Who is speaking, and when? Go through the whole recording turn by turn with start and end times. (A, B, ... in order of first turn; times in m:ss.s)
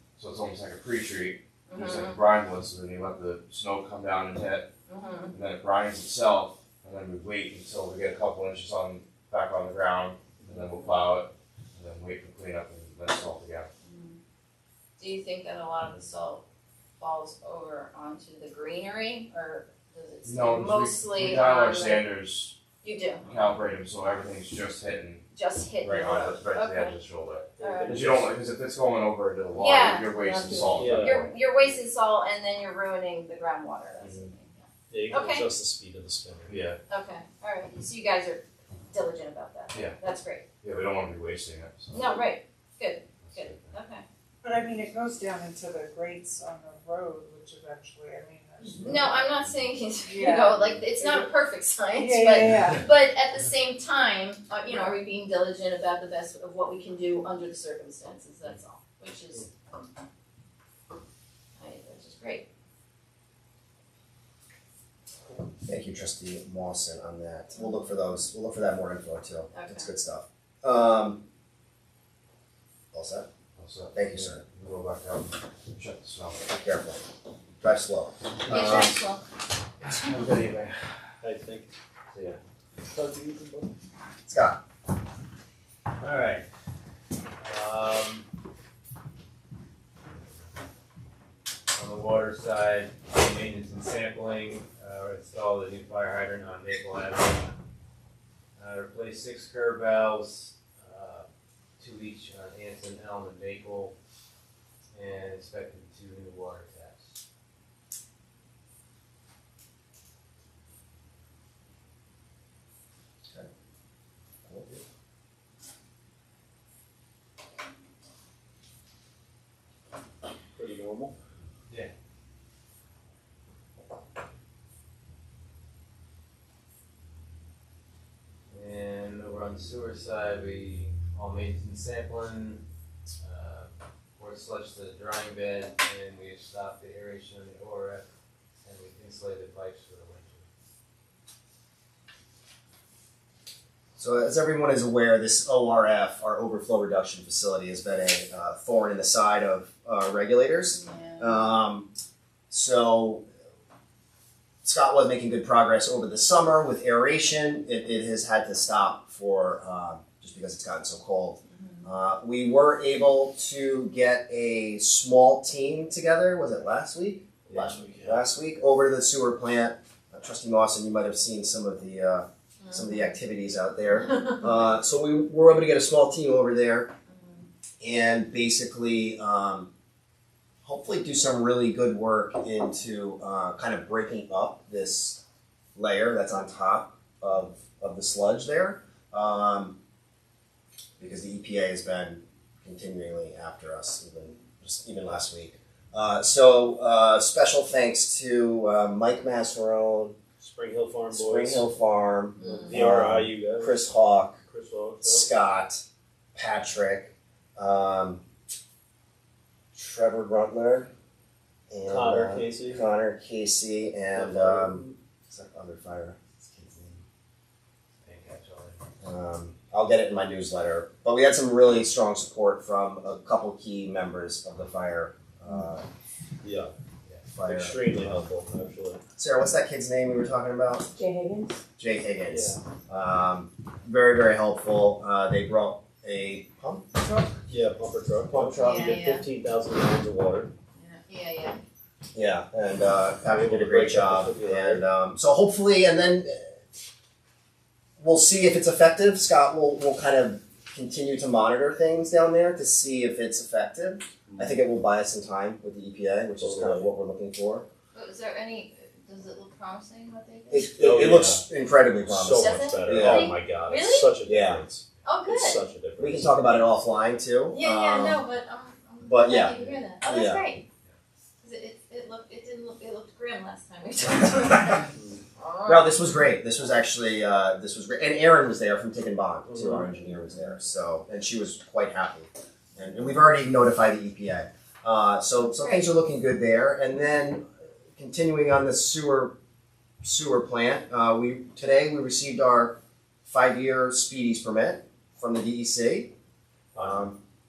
0:00.2-0:04.7 A
0:01.7-0:02.2 B
0:04.9-0:05.4 B
0:05.3-0:13.7 A
0:10.5-0:10.9 B
0:13.8-0:14.2 B
0:15.0-0:16.4 B
0:17.0-0:22.1 B
0:20.2-0:22.5 A
0:22.8-0:23.3 B
0:23.3-0:25.2 A
0:25.3-0:27.0 B
0:25.8-0:31.8 A
0:27.6-0:28.4 C
0:27.6-0:28.0 B
0:29.6-0:35.5 B
0:30.7-0:31.2 C
0:34.0-0:34.3 A
0:34.9-0:36.5 C
0:36.5-0:36.8 A
0:36.9-0:40.5 B
0:39.7-0:40.0 A
0:40.6-0:42.2 A
0:41.9-0:44.0 B
0:43.2-0:43.7 A
0:44.4-0:49.4 D
0:48.6-0:59.8 B
0:50.0-0:51.3 D
0:51.9-0:52.8 D
1:01.6-1:02.5 B
1:05.6-1:11.2 E
1:09.5-1:09.9 B
1:12.9-1:13.3 E
1:13.6-1:16.4 A
1:13.9-1:14.4 E
1:16.5-1:17.0 E
1:17.6-1:19.0 E
1:18.5-1:19.2 B
1:19.8-1:20.8 A
1:21.2-1:21.7 C
1:22.1-1:22.4 A
1:22.8-1:23.7 C
1:24.3-1:24.6 E
1:26.0-1:26.5 F
1:27.4-1:28.2 F
1:31.7-1:37.6 F
1:38.6-1:41.3 F
1:41.8-1:44.0 F
1:44.9-1:47.2 F
1:54.5-1:54.7 E
2:00.6-2:01.1 C
2:08.5-2:12.6 F
2:13.2-2:18.0 F
2:18.6-2:20.5 F
2:24.0-2:31.9 E
2:30.7-2:31.5 B
2:32.5-2:33.2 E
2:34.6-2:56.9 E
2:41.5-2:41.9 B
2:47.5-2:48.2 C
2:52.6-2:53.2 B
2:57.1-2:57.5 B
2:57.8-2:59.7 E
3:00.6-3:05.2 E
3:05.8-3:09.8 E
3:11.0-3:20.2 E
3:20.4-3:21.7 C
3:21.1-3:24.4 E
3:22.4-3:22.7 B
3:22.4-3:23.8 C
3:24.5-3:25.3 C
3:25.0-3:25.8 E
3:26.4-3:28.2 E
3:29.7-3:30.9 E
3:31.7-3:37.0 E
3:31.9-3:32.9 C
3:34.1-3:35.0 C
3:38.0-3:38.8 F
3:39.0-3:45.8 E
3:46.4-3:46.7 C
3:47.4-3:48.2 E
3:47.4-3:49.0 C
3:49.2-3:50.9 E
3:51.8-3:56.9 E
3:52.3-3:52.6 C
3:57.5-4:00.5 C
3:58.3-3:59.0 E
3:58.6-3:59.2 B
4:00.8-4:01.6 B
4:02.1-4:06.5 E
4:03.3-4:04.9 C
4:08.0-4:17.7 E
4:14.3-4:14.6 C
4:16.4-4:16.9 C
4:17.9-4:20.8 B
4:20.5-4:23.3 E
4:20.7-4:21.4 C
4:22.0-4:26.6 C
4:22.4-4:24.1 B
4:24.2-4:24.6 E
4:25.0-4:25.6 B
4:26.0-4:28.2 E
4:27.5-4:30.6 B
4:29.0-4:30.5 E
4:31.4-4:36.0 B
4:35.7-4:47.4 E
4:39.5-4:39.9 C
4:45.5-4:45.8 B
4:48.0-4:49.3 E
4:50.0-4:56.1 E
4:56.8-4:57.1 C
4:56.8-4:57.2 E